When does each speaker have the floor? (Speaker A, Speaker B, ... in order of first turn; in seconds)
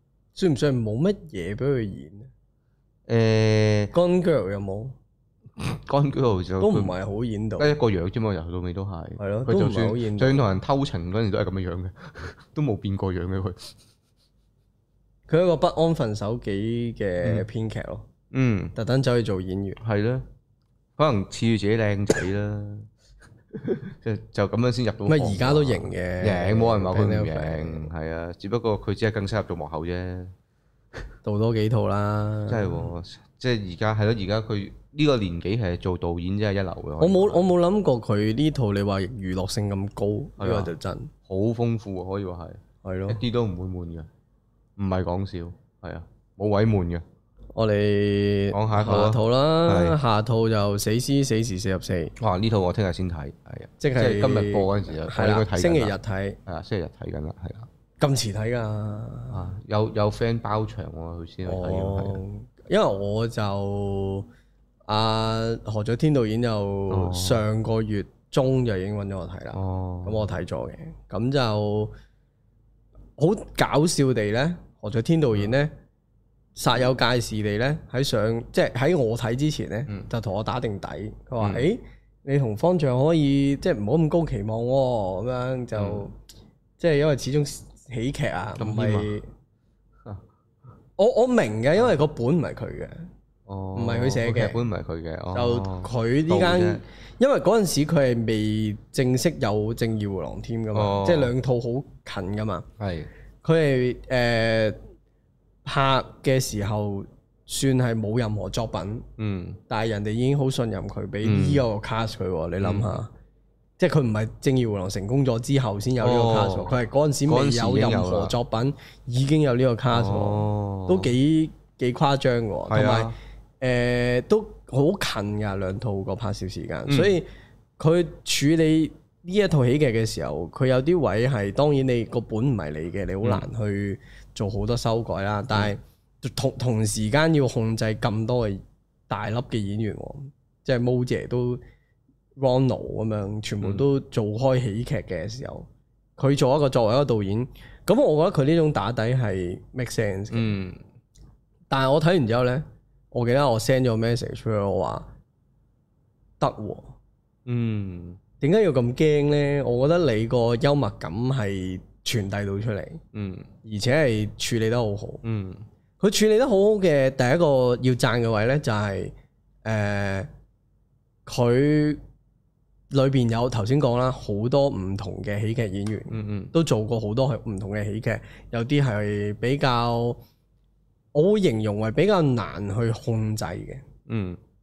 Speaker A: 0.3-2.3, 3.9-5.0, 6.6-7.7, 9.2-10.4, 15.3-18.1, 18.7-19.8, 25.1-27.9, 31.2-32.9, 37.0-41.1, 42.8-43.2, 47.5-52.1, 53.8-56.4, 58.0-59.4, 61.4-64.3, 64.9-71.9, 73.2-75.7, 76.5-86.1, 86.8-89.3, 91.0-93.1, 93.7-94.6, 95.3-102.7, 103.4-104.8, 105.6-109.0, 109.7-113.1, 113.8-127.3, 127.8-141.6, 142.4-150.5, 151.7-155.1, 156.4-156.9, 158.4-163.0, 163.6-165.2, 166.0-170.3, 171.3-172.0, 172.9-180.2, 181.1-183.8
Speaker B: 3.1-3.9, 5.6-6.9, 7.6-13.7, 18.3-18.7, 19.8-20.2, 21.0-22.9, 23.6-30.3, 32.5-37.4, 40.4-40.7, 41.3-44.1, 44.8-47.0, 48.5-50.0, 52.2-57.7, 59.3-62.2, 66.9-67.4, 69.5-70.2, 81.4-81.7, 85.7-86.1, 88.6-89.1, 93.5-96.8, 100.7-101.3, 102.8-103.1, 109.2-109.6, 111.2-111.7, 112.6-113.0, 116.0-116.8, 117.3-118.3, 119.9-121.1, 122.7-123.1, 126.9-127.2, 133.2-133.5, 150.3-150.8, 157.4-158.2, 163.1-163.5, 165.2-165.6, 176.1-176.5, 184.1-184.4